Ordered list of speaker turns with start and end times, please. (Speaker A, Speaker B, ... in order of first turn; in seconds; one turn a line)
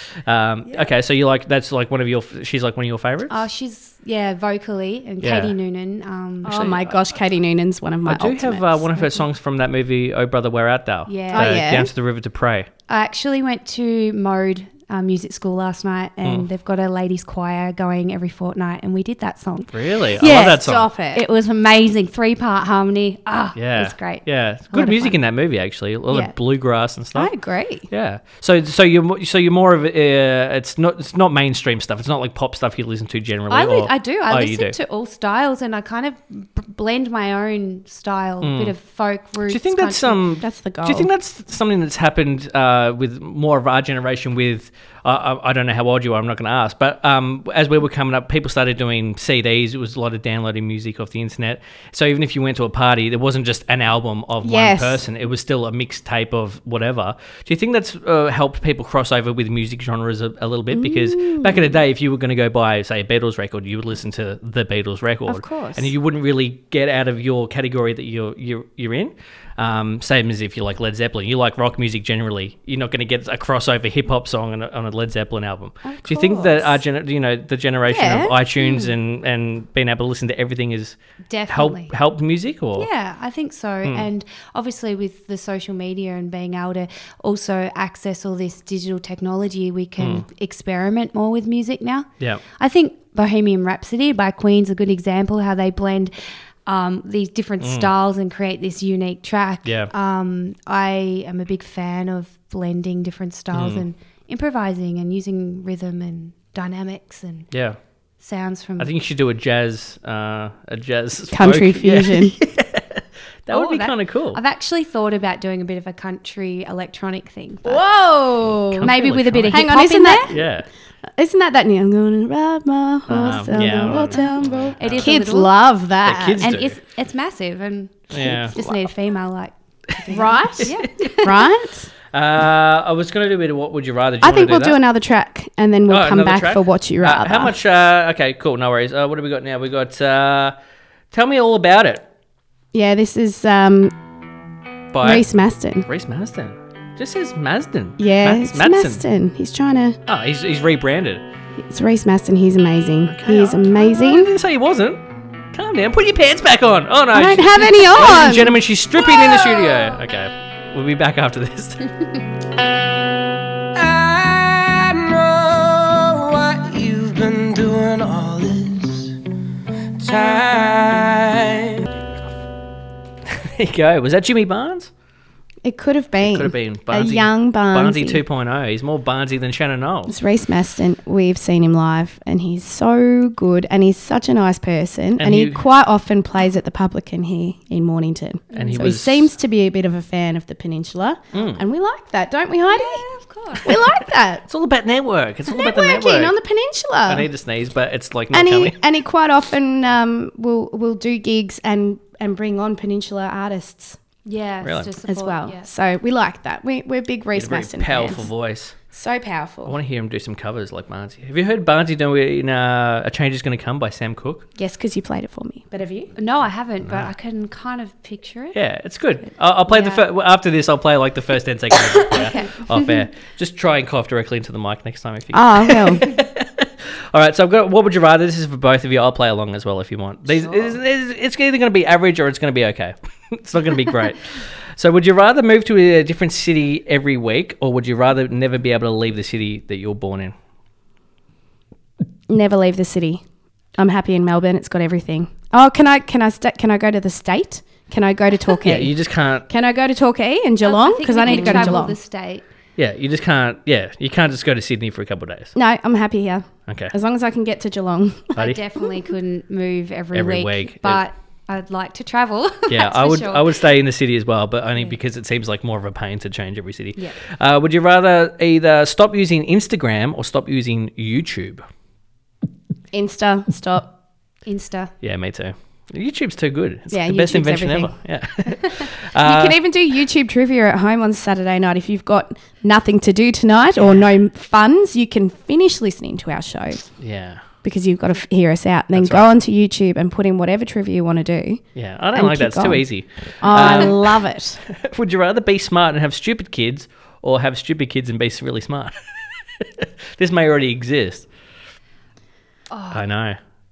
Speaker A: 0.2-3.5
Speaker B: 3.3-6.6
Speaker A: 5.2-5.5
Speaker C: 6.5-9.0
Speaker A: 6.5-7.0
Speaker A: 8.1-12.7
Speaker B: 11.1-11.7
Speaker C: 11.3-11.9
Speaker B: 12.9-19.7
Speaker A: 19.7-20.9
Speaker C: 20.2-21.2
Speaker B: 21.1-25.2
Speaker A: 23.6-27.3
Speaker C: 27.1-27.9
Speaker A: 27.9-34.8
Speaker B: 33.5-40.2
Speaker A: 38.4-38.8
Speaker A: 39.5-81.0
Speaker C: 40.4-41.1
Speaker C: 54.4-55.0
Speaker C: 60.7-61.7
Speaker C: 65.3-65.9
Speaker C: 75.8-76.7
Speaker C: 77.9-78.4
Speaker B: 78.6-78.9
Speaker B: 81.3-81.9
Speaker A: 81.5-82.9
Speaker B: 82.8-96.1
Speaker B: 96.7-107.5
Speaker A: 97.6-97.9
Speaker A: 99.7-99.9
Speaker A: 103.5-103.8
Speaker A: 107.5-107.8
Speaker B: 108.2-108.9
Speaker A: 108.8-114.4
Speaker C: 111.3-112.3
Speaker B: 113.5-117.8
Speaker C: 117.7-118.9
Speaker A: 118.5-120.7
Speaker B: 118.8-120.4
Speaker C: 119.5-120.4
Speaker C: 121.2-126.5
Speaker A: 123.1-125.2
Speaker B: 124.8-125.5
Speaker A: 126.0-126.8
Speaker B: 126.4-131.5
Speaker A: 128.1-128.8
Speaker C: 130.1-131.9
Speaker A: 132.1-134.8
Speaker C: 134.2-137.6
Speaker A: 135.9-140.6
Speaker A: 141.1-142.1
Speaker C: 142.7-143.9
Speaker A: 144.9-145.3
Speaker C: 145.0-145.9
Speaker A: 145.9-149.0
Speaker C: 148.0-150.0
Speaker A: 150.1-151.2
Speaker C: 151.6-154.3
Speaker A: 153.1-161.9
Speaker C: 157.1-158.5
Speaker D: 163.7-169.2
Speaker D: 170.0-171.9
Speaker A: 173.3-174.9
Speaker C: 175.6-178.2
Speaker A: 176.2-180.2
Speaker C: 180.1-193.1
Speaker A: 185.2-185.6
Speaker B: 188.5-188.9
Speaker A: 188.5-189.3
Speaker A: 191.3-191.6
Speaker B: 192.7-193.7
Speaker C: 193.6-194.4
Speaker A: 194.4-196.4
Speaker C: 195.5-197.3
Speaker A: 197.1-198.8
Speaker C: 198.3-204.0
Speaker B: 204.2-205.7
Speaker A: 204.6-204.9
Speaker C: 205.1-208.3
Speaker A: 207.3-208.8
Speaker C: 208.9-209.8
Speaker A: 209.7-214.4
Speaker C: 214.6-216.1
Speaker B: 216.2-218.6
Speaker A: 216.8-217.1
Speaker A: 218.5-240.3
Speaker C: 219.7-220.0
Speaker B: 222.1-223.1
Speaker C: 225.3-226.1
Speaker C: 242.3-243.2
Speaker C: 243.8-248.9
Speaker A: 248.6-249.4
Speaker C: 249.5-252.0
Speaker B: 250.6-252.5
Speaker A: 251.3-251.8
Speaker A: 252.8-255.5
Speaker C: 255.6-258.4
Speaker A: 256.7-256.9
Speaker B: 258.4-263.7
Speaker A: 260.1-261.0
Speaker A: 262.7-271.6
Speaker C: 272.9-273.9
Speaker B: 274.4-274.9
Speaker A: 275.0-279.6
Speaker C: 276.9-277.9
Speaker C: 279.2-286.8
Speaker A: 287.0-287.4
Speaker C: 287.6-291.6
Speaker A: 288.9-289.3
Speaker A: 291.8-299.0
Speaker C: 292.1-292.9
Speaker C: 293.4-294.6
Speaker A: 299.6-301.3
Speaker B: 302.7-303.1
Speaker A: 302.9-303.4